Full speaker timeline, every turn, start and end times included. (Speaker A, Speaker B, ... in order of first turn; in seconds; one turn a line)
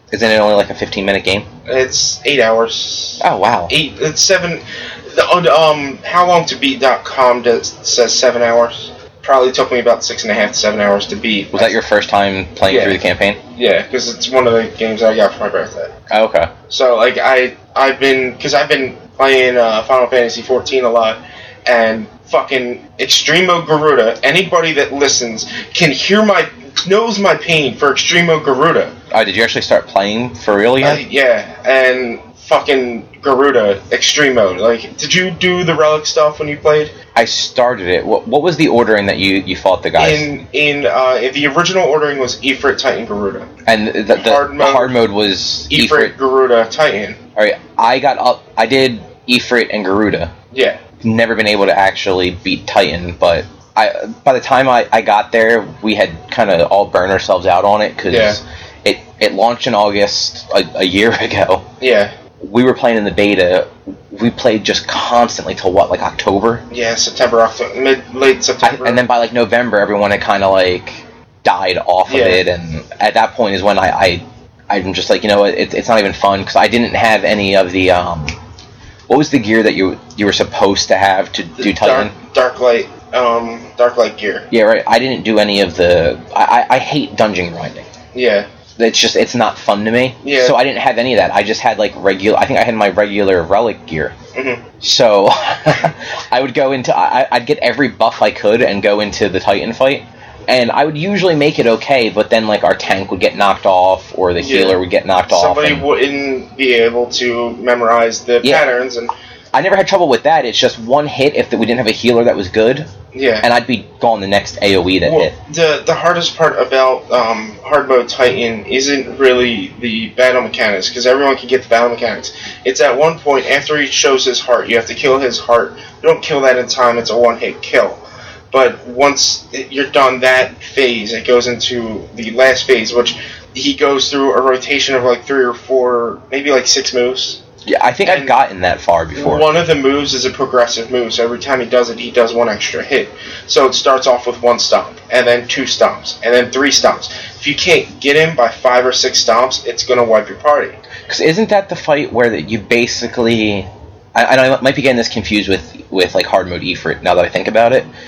Speaker A: 0.1-1.5
Speaker B: 1.6-11.8
Speaker A: 3.2-3.7
Speaker A: 11.5-13.4
Speaker B: 12.7-13.0
Speaker B: 13.5-15.9
Speaker A: 16.1-16.5
Speaker B: 16.7-28.9
Speaker A: 29.1-31.0
Speaker B: 30.8-36.9
Speaker A: 37.1-40.3
Speaker B: 40.0-43.5
Speaker A: 43.7-46.1
Speaker B: 44.1-45.0
Speaker B: 45.7-47.2
Speaker A: 47.4-50.3
Speaker B: 50.5-50.8
Speaker A: 51.0-61.7
Speaker B: 58.1-58.4
Speaker B: 61.8-62.1
Speaker A: 62.4-66.6
Speaker B: 66.7-69.0
Speaker A: 68.6-78.3
Speaker B: 72.1-72.4
Speaker A: 79.1-82.1
Speaker B: 81.6-84.5
Speaker A: 84.5-87.9
Speaker B: 88.1-88.5
Speaker A: 88.8-94.2
Speaker B: 90.2-90.6
Speaker B: 94.3-94.6
Speaker A: 94.8-105.8
Speaker B: 104.4-109.1
Speaker A: 108.4-108.7
Speaker A: 109.5-112.9
Speaker B: 113.1-113.5
Speaker A: 113.4-115.3
Speaker B: 115.0-137.4
Speaker A: 137.7-139.5
Speaker B: 138.0-138.3
Speaker B: 139.1-150.8
Speaker A: 151.1-157.9